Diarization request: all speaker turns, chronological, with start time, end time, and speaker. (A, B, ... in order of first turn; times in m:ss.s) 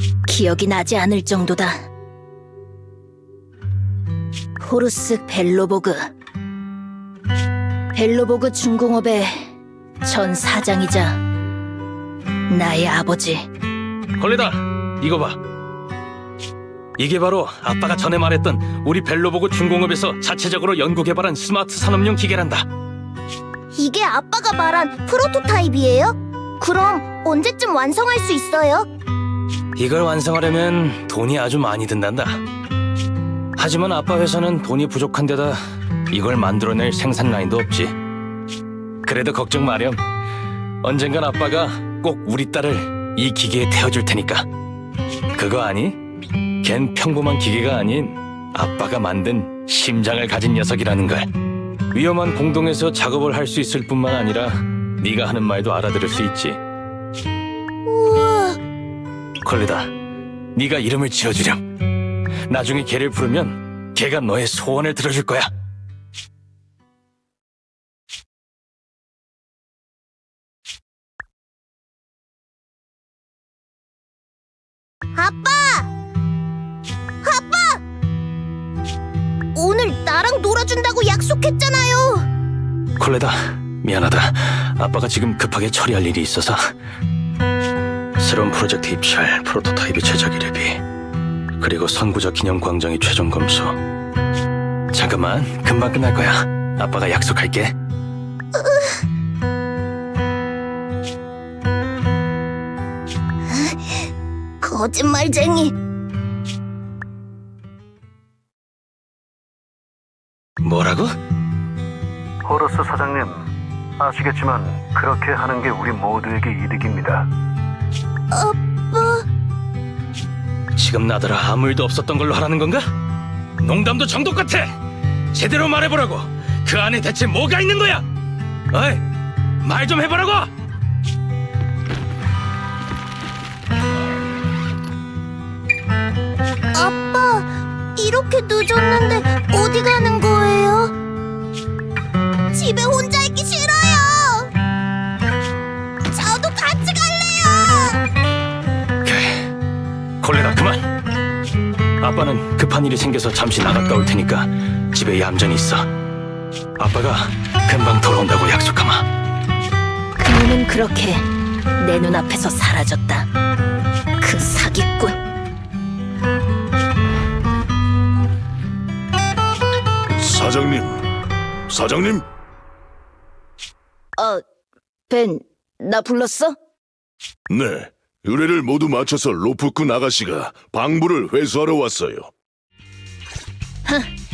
0:00.3-0:01.8 A
0:04.6-0:06.1 A
0:07.9-0:09.5 A
0:10.0-0:11.2 A
0:12.5-0:13.4 A
0:14.2-0:15.4 B
0:17.0-0:22.7 B
0:23.8-0:28.8 C
0:24.7-0:25.3 A
0:29.8-0:32.4 B
0:33.6-0:35.6 B
0:36.1-0:38.0 B
0:39.0-0:40.0 B
0:40.8-0:44.5 B
0:45.4-0:46.0 B
0:46.6-0:51.3 B
0:51.9-0:56.6 B
0:57.9-0:58.5 A
0:59.4-0:59.9 B
1:00.6-1:01.6 B
1:02.5-1:05.5 B
1:15.2-1:15.8 C
1:17.3-1:17.8 C
1:19.6-1:22.1 C
1:23.0-1:26.7 B
1:28.2-1:30.8 B
1:31.6-1:33.8 B
1:34.9-1:37.7 B
1:44.6-1:45.7 A
1:50.6-1:51.1 B
1:52.4-1:53.4 D
1:54.0-1:57.3 D
2:00.8-2:02.8 B
2:03.6-2:04.7 B
2:05.3-2:08.0 B
2:08.7-2:09.0 B
2:09.6-2:10.5 B
2:16.8-2:17.4 C
2:18.0-2:20.9 C
2:22.6-2:24.4 C
2:26.2-2:27.8 C
2:29.0-2:29.4 B
2:30.2-2:30.8 B
2:32.0-2:35.9 B
2:36.8-2:39.1 B
2:40.2-2:41.2 A
2:41.8-2:43.3 A
2:44.2-2:45.2 A
2:50.1-2:51.0 E
2:51.7-2:52.3 E
2:54.2-2:54.4 A
2:55.1-2:56.6 A
2:57.5-3:02.3 E